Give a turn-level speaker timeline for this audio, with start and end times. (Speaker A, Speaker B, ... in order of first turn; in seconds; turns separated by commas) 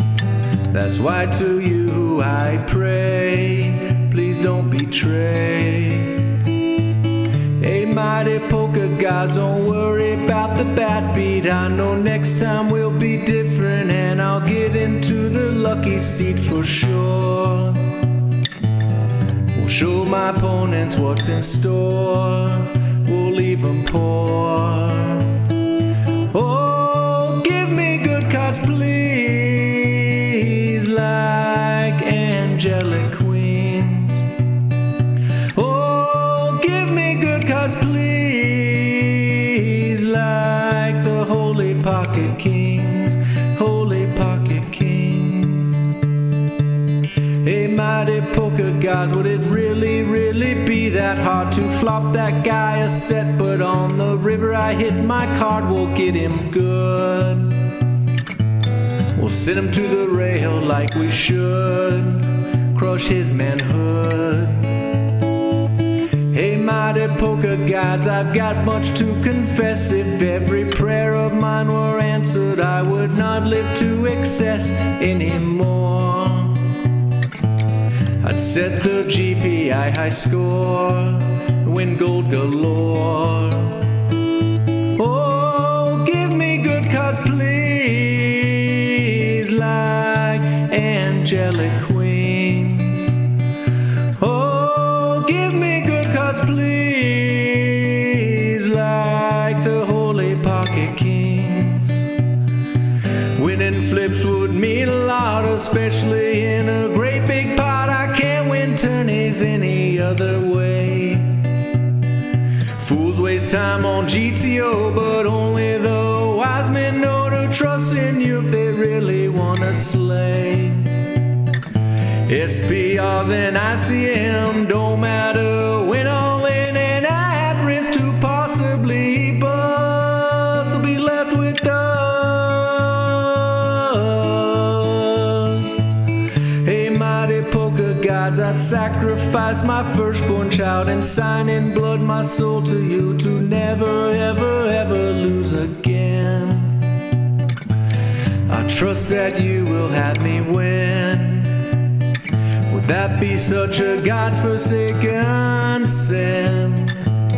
Speaker A: 0.7-6.3, Speaker A: 7.6-18.0, Speaker A: 19.6-25.4, Speaker A: 26.3-34.3, Speaker A: 35.5-45.9, Speaker A: 47.4-57.8, Speaker A: 59.1-64.8, Speaker A: 66.3-76.8, Speaker A: 78.2-84.0, Speaker A: 85.0-93.3, Speaker A: 94.2-102.1, Speaker A: 103.4-111.7, Speaker A: 112.8-121.2, Speaker A: 122.3-135.9, Speaker A: 136.6-147.0, Speaker A: 148.5-151.8, Speaker A: 152.7-157.0